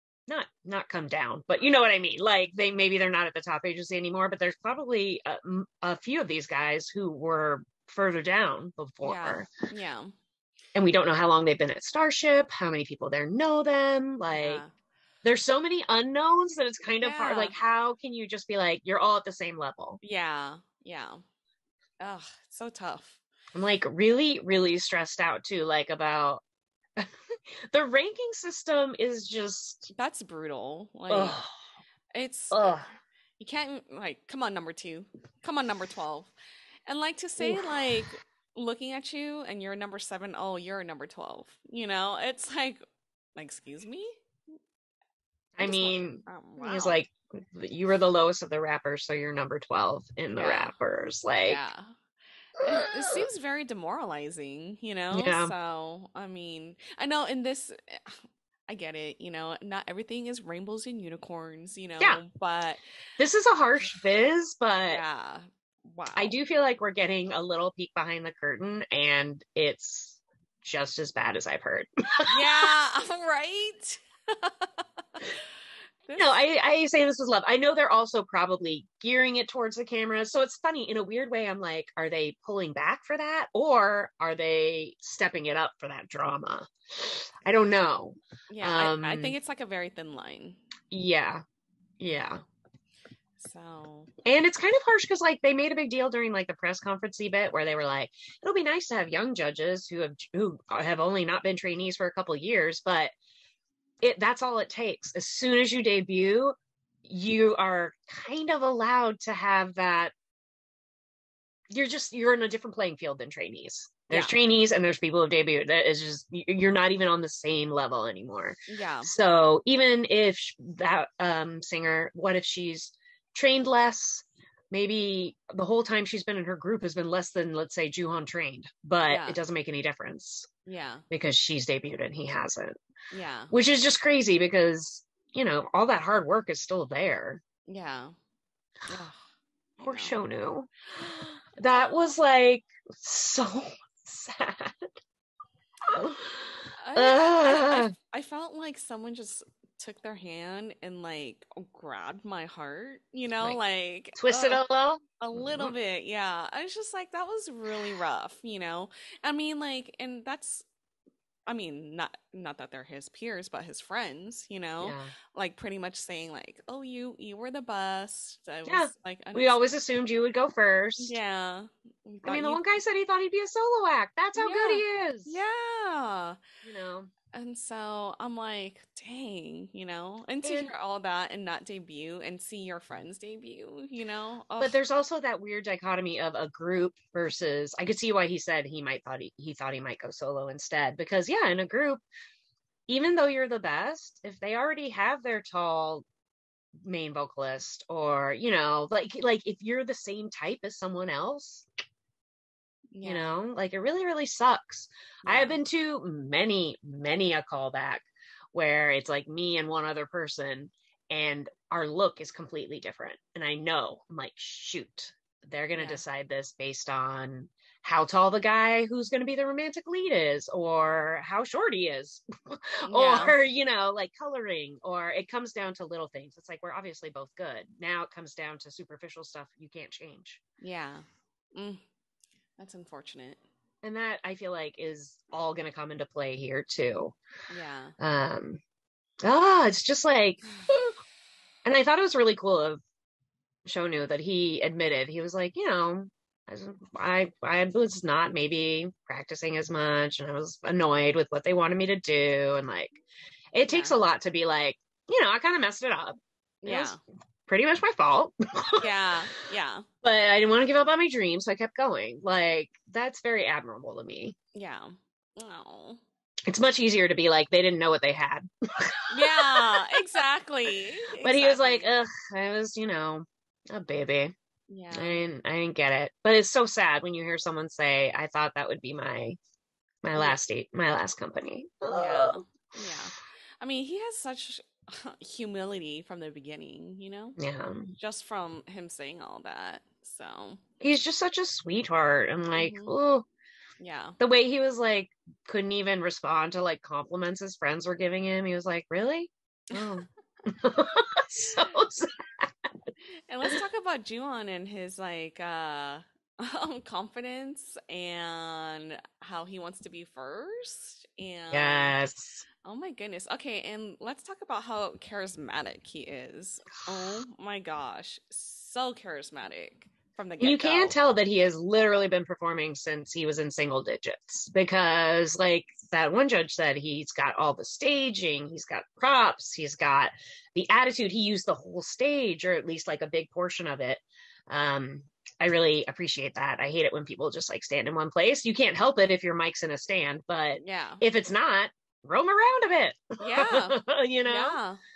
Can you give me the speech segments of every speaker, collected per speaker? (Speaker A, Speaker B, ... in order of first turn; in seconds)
Speaker A: 0.3-9.5, 10.7-14.6, 15.2-20.0, 23.5-26.4, 27.7-29.9, 31.1-31.5, 32.5-32.9, 37.4-37.8, 45.6-51.6, 52.7-53.2, 55.1-55.5, 63.2-65.0, 66.2-72.7, 76.1-89.3, 90.9-91.4, 92.0-92.4, 94.2-103.1, 104.0-110.1, 111.7-130.5, 131.1-132.8, 133.5-137.4, 139.8-140.7, 141.6-144.8, 145.9-147.9, 154.2-155.7, 164.8-165.1, 168.7-171.2, 172.2-175.4, 176.6-177.1, 180.4-180.7, 184.6-192.0, 192.9-196.0, 196.8-201.7, 203.0-230.4, 233.8-237.2, 238.0-238.6, 239.2-240.9, 241.6-242.8, 243.7-253.0, 253.5-258.9, 260.0-264.3, 266.5-269.6, 271.2-274.3, 274.9-279.4, 280.0-282.4, 287.4-287.9, 290.8-293.2, 294.2-302.5, 311.5-312.4, 320.4-344.6
Speaker B: 9.0-10.1, 14.3-14.7, 17.0-17.6, 20.0-21.2, 22.0-23.2, 29.9-31.4, 32.1-32.7, 33.4-36.3, 36.9-42.8, 43.4-44.2, 45.6-47.0, 50.4-50.7, 51.5-51.9, 52.6-62.8, 64.8-66.4, 72.3-74.7, 76.0-76.3, 88.5-90.6, 93.4-94.1, 114.1-114.3, 118.7-119.1, 129.1-129.4, 130.7-131.0, 133.1-133.5, 137.7-138.1, 138.9-139.2, 139.8-140.2, 141.0-142.1, 146.8-154.6, 155.2-160.6, 161.5-169.7, 171.0-172.6, 174.3-176.4, 177.3-184.7, 202.9-203.3, 205.2-205.6, 215.7-216.0, 222.9-223.4, 230.6-231.8, 232.6-233.4, 237.5-237.9, 253.7-254.0, 256.6-257.0, 258.8-259.9, 264.5-266.0, 269.1-271.9, 274.7-275.2, 281.9-287.4, 288.0-290.6, 292.5-292.9, 293.8-294.2, 303.3-311.9, 312.6-320.9, 340.6-341.0, 343.2-344.8